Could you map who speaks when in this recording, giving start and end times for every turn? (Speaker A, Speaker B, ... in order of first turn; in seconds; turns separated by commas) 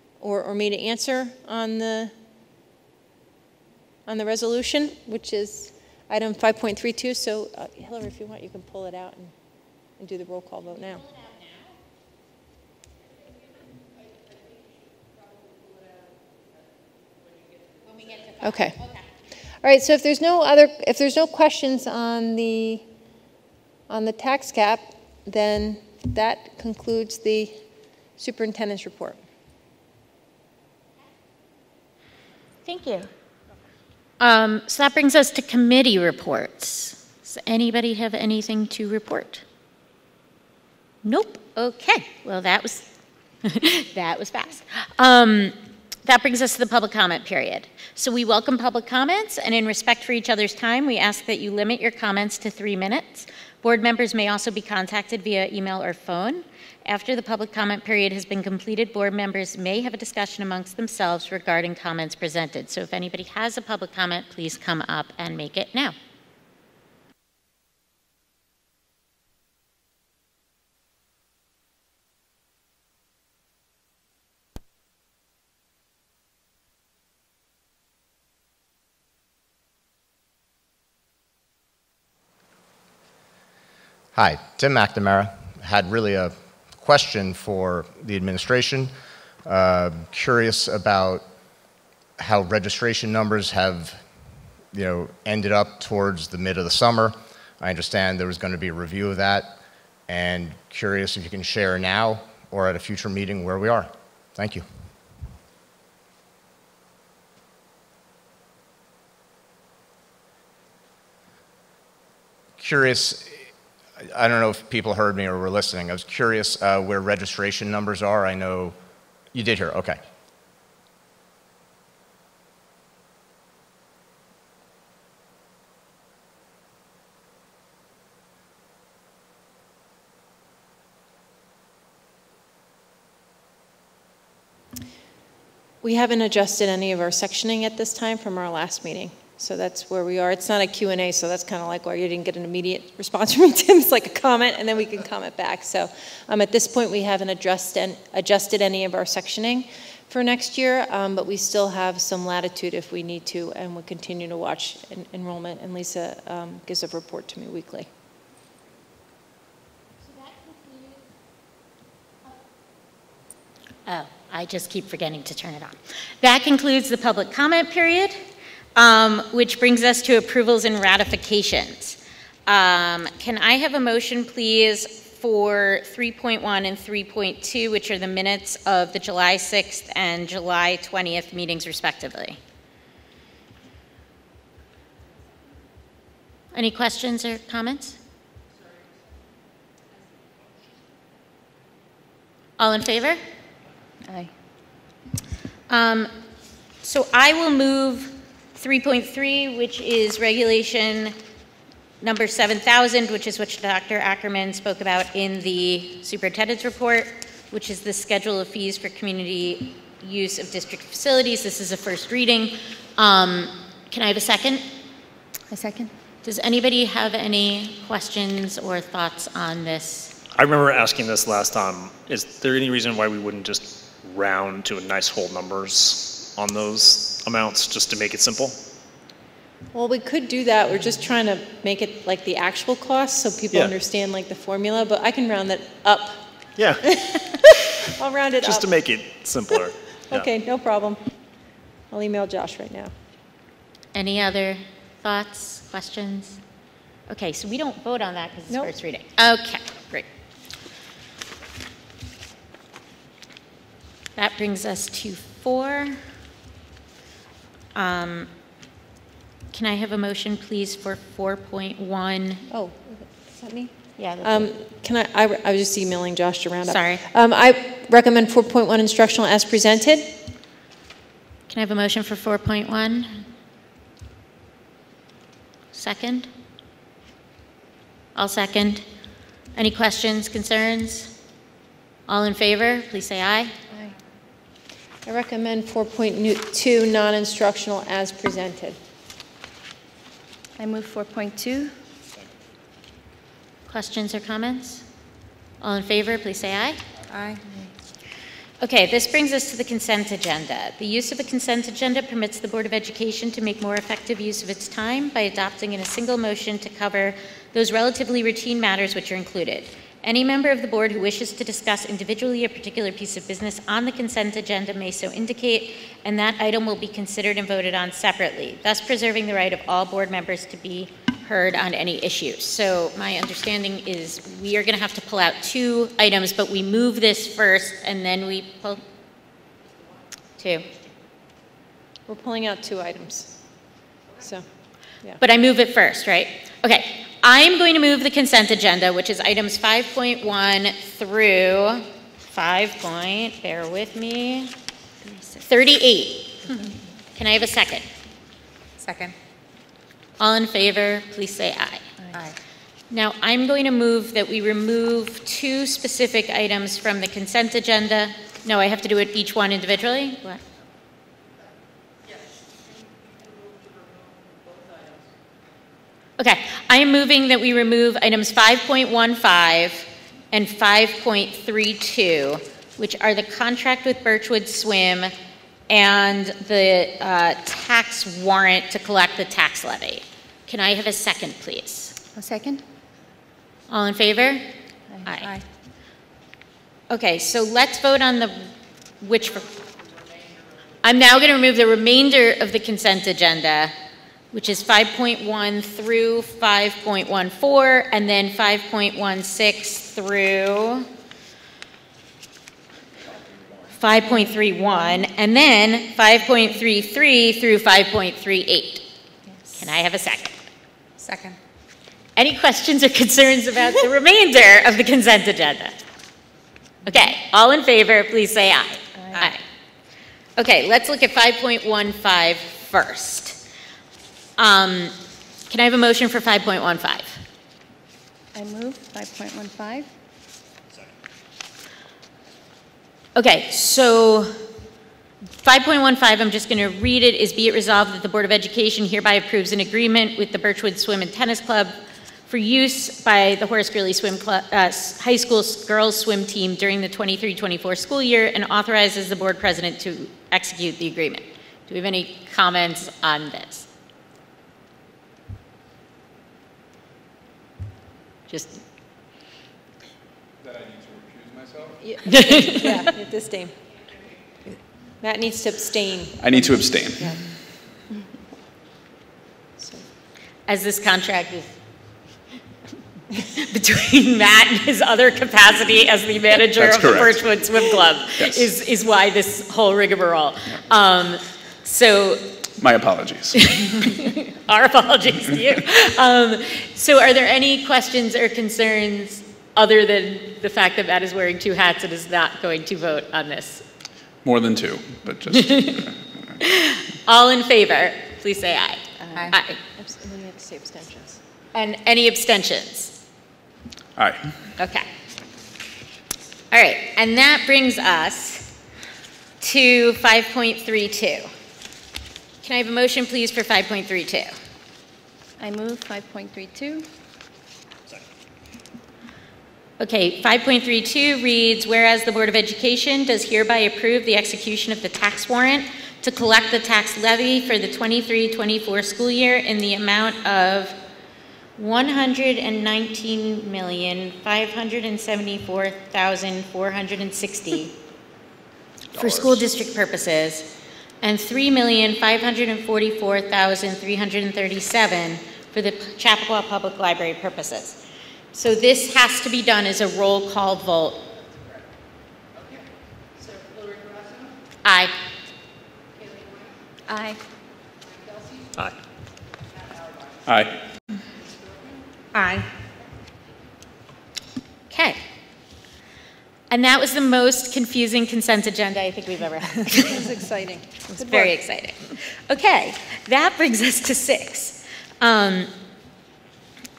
Speaker A: 0.2-2.1, Speaker A: 4.0-9.3, Speaker A: 10.0-11.1, Speaker A: 18.3-18.9, Speaker A: 19.6-22.9, Speaker A: 23.9-27.6, Speaker A: 28.2-29.2, Speaker B: 32.6-33.1, Speaker B: 34.2-39.4, Speaker B: 41.0-42.9, Speaker B: 43.4-66.0, Speaker C: 84.1-88.9, Speaker C: 89.4-91.3, Speaker C: 92.2-94.0, Speaker C: 94.7-99.5, Speaker C: 100.1-104.7, Speaker C: 112.6-113.5, Speaker C: 114.0-118.8, Speaker C: 119.3-120.0, Speaker A: 135.8-157.9, Speaker B: 163.8-168.2, Speaker B: 168.8-182.4, Speaker B: 186.5-188.0, Speaker B: 192.6-193.2, Speaker D: 194.0-194.3, Speaker B: 195.7-196.1, Speaker B: 196.8-201.2, Speaker B: 202.0-214.6, Speaker D: 215.5-215.9, Speaker B: 216.2-220.2, Speaker E: 220.3-228.6, Speaker A: 229.7-236.3, Speaker E: 236.6-236.9, Speaker A: 236.8-238.8, Speaker E: 238.4-240.3, Speaker A: 240.1-241.0, Speaker A: 241.9-242.9, Speaker B: 243.9-246.4, Speaker B: 247.1-250.1, Speaker B: 254.2-256.0, Speaker B: 257.7-258.3, Speaker B: 259.5-262.4, Speaker A: 262.5-270.2, Speaker B: 264.0-264.5, Speaker B: 266.6-267.0, Speaker B: 271.5-273.2, Speaker B: 275.7-276.3, Speaker B: 278.1-278.9, Speaker B: 279.5-281.1, Speaker B: 282.1-283.5, Speaker A: 285.1-288.8, Speaker D: 290.6-291.7, Speaker B: 293.7-294.9, Speaker B: 295.6-296.8, Speaker D: 297.1-297.7, Speaker B: 298.6-328.8, Speaker B: 330.4-330.7, Speaker A: 332.1-333.4, Speaker A: 334.2-334.5, Speaker B: 335.2-344.5, Speaker D: 345.0-345.4, Speaker B: 345.4-347.9, Speaker D: 348.8-349.1, Speaker B: 350.2-351.9, Speaker D: 352.0-352.4, Speaker B: 352.9-360.4, Speaker B: 366.2-375.1, Speaker B: 375.7-382.0, Speaker D: 382.1-382.6, Speaker B: 383.7-384.5, Speaker D: 384.9-385.4, Speaker B: 385.0-385.3, Speaker B: 386.9-389.6, Speaker B: 390.8-393.7, Speaker B: 394.3-400.9, Speaker B: 403.8-408.9, Speaker B: 409.5-410.4, Speaker D: 411.0-411.4, Speaker B: 412.1-415.8, Speaker B: 416.9-419.4, Speaker D: 419.0-419.3, Speaker B: 420.4-423.4, Speaker B: 424.4-424.9, Speaker B: 425.5-427.2, Speaker D: 428.3-429.9, Speaker B: 433.1-434.4, Speaker B: 435.4-441.7, Speaker B: 442.3-453.7, Speaker B: 458.3-458.6, Speaker A: 461.8-463.6, Speaker B: 462.0-462.9, Speaker A: 465.0-467.3, Speaker F: 466.2-467.3, Speaker B: 470.5-471.5, Speaker B: 473.2-482.4, Speaker F: 476.5-477.6, Speaker F: 478.2-478.4, Speaker F: 482.6-483.8, Speaker B: 483.5-493.6, Speaker F: 494.2-496.0, Speaker B: 495.3-495.9, Speaker B: 496.4-499.6, Speaker A: 499.1-501.2, Speaker B: 501.5-503.0, Speaker F: 503.9-504.4, Speaker B: 504.6-504.9, Speaker B: 506.5-508.5, Speaker B: 509.4-511.3, Speaker B: 512.4-514.3, Speaker D: 515.4-516.9, Speaker B: 519.8-530.8, Speaker B: 531.6-537.8, Speaker B: 538.9-547.8, Speaker E: 539.0-539.4, Speaker B: 548.3-551.0, Speaker B: 554.6-554.9, Speaker D: 556.9-557.2, Speaker F: 560.2-560.6, Speaker B: 562.1-562.5, Speaker B: 564.7-565.0, Speaker B: 566.5-570.1, Speaker A: 569.9-570.7, Speaker B: 570.9-575.5